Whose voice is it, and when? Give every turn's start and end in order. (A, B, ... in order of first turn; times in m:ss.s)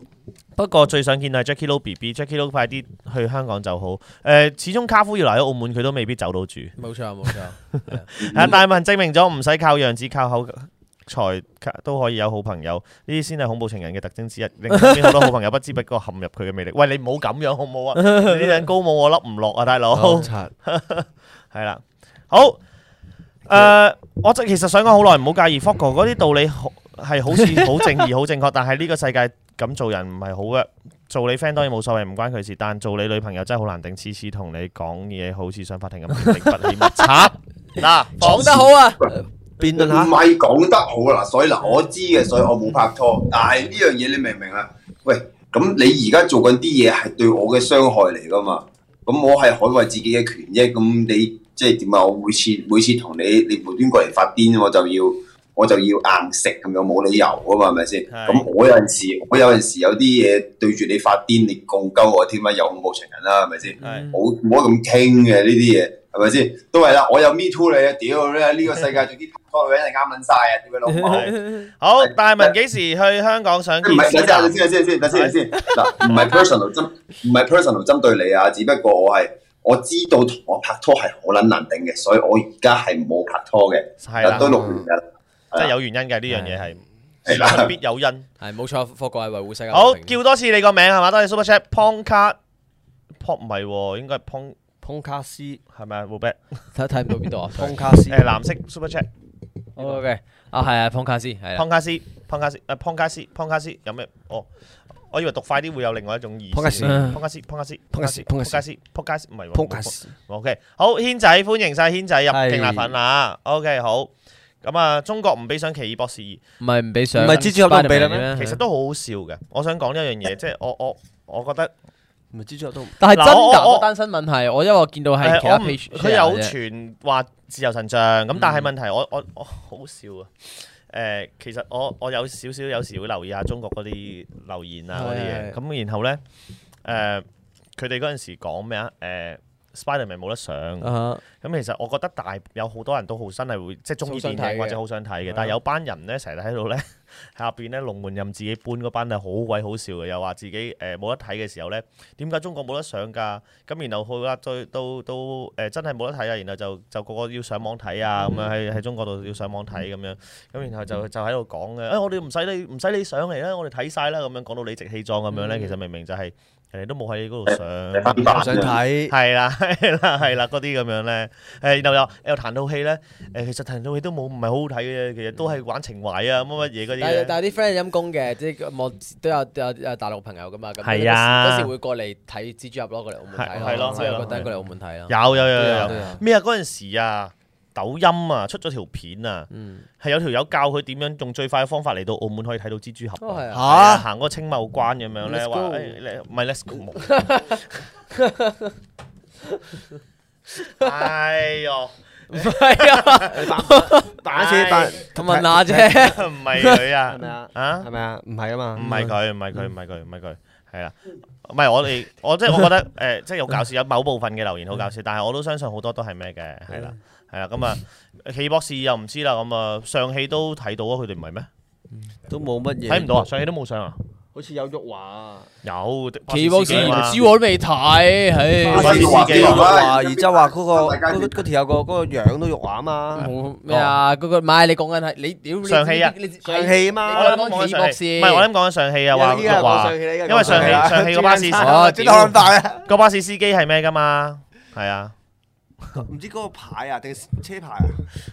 0:00.6-0:06.7 A
0:06.8-0:08.0 B
0:07.8-0:22.6 A
0:08.2-0:08.6 C
0:14.7-0:15.3 B
0:18.0-0:18.3 B
0:19.9-0:20.5 D
0:23.4-0:38.6 A
0:36.8-0:37.3 B
0:38.2-0:39.0 B
0:38.2-1:11.4 C
0:39.6-0:40.2 D
0:58.1-0:58.4 A
1:03.8-1:04.1 A
1:03.8-1:04.2 B
1:10.9-1:11.7 B
1:11.1-1:15.4 A
1:12.0-1:12.5 C
1:13.8-1:25.7 C
1:16.0-1:16.4 A
1:24.0-1:24.6 A
1:24.2-1:24.9 D
1:25.5-1:28.3 A
1:26.3-1:26.6 B
1:27.2-1:27.7 C
1:28.4-1:30.1 B
1:29.7-1:32.4 A
1:33.2-1:34.6 A
1:34.8-1:35.6 D
1:35.7-1:36.4 A
1:36.7-1:37.9 B
1:37.5-1:38.3 D
1:38.1-1:39.1 A
1:39.8-1:41.6 B
1:39.8-1:40.0 D
1:41.6-1:44.5 A
1:45.1-1:54.1 A
1:46.5-1:47.2 D
1:46.8-1:47.2 B
1:47.9-1:48.6 D
1:49.5-1:50.1 D
1:52.3-1:52.9 D
1:54.6-1:56.4 A
1:56.6-1:58.6 B
1:57.1-1:58.3 D
1:58.3-2:01.7 A
2:02.3-2:03.0 D
2:03.0-2:06.5 B
2:03.1-2:03.8 A
2:05.2-2:16.2 A
2:08.3-2:08.7 B
2:14.9-2:15.6 B
2:16.8-2:17.2 A
2:17.8-2:57.3 A
2:20.8-2:21.2 B
2:24.0-2:24.8 B
2:38.2-2:38.5 B
2:45.3-2:45.8 B
2:47.5-2:48.8 C
2:48.2-2:49.1 D
2:57.0-3:05.1 B
3:00.8-3:01.7 A
3:03.3-3:04.5 A
3:03.6-3:04.4 D
3:05.1-3:09.5 A
3:05.6-3:06.2 D
3:05.7-3:06.1 B
3:09.5-3:09.9 B
3:10.0-3:17.2 A
3:13.2-3:13.7 B
3:13.5-3:14.0 D
3:15.3-3:15.8 B
3:17.0-3:18.7 B
3:20.6-3:21.0 B
3:20.8-3:23.2 A
3:22.3-3:26.8 B
3:23.3-3:26.2 D
3:24.3-3:24.8 A
3:26.1-3:27.9 A
3:27.1-3:29.1 D
3:28.7-3:41.5 A
3:42.3-3:43.3 D
3:42.9-3:44.0 A
3:44.3-3:45.5 D
3:45.6-3:47.2 A
3:46.3-3:49.0 B
3:48.7-3:53.3 D
3:48.7-3:51.4 C
3:48.7-3:49.7 A
3:53.1-3:58.5 B
3:53.2-3:54.0 A
3:55.6-3:56.1 A
3:56.4-3:57.3 D
3:57.1-4:02.3 A
3:59.1-4:02.9 D
4:00.4-4:00.9 B
4:01.6-4:02.4 B
4:02.8-4:05.1 A
4:06.0-4:08.0 D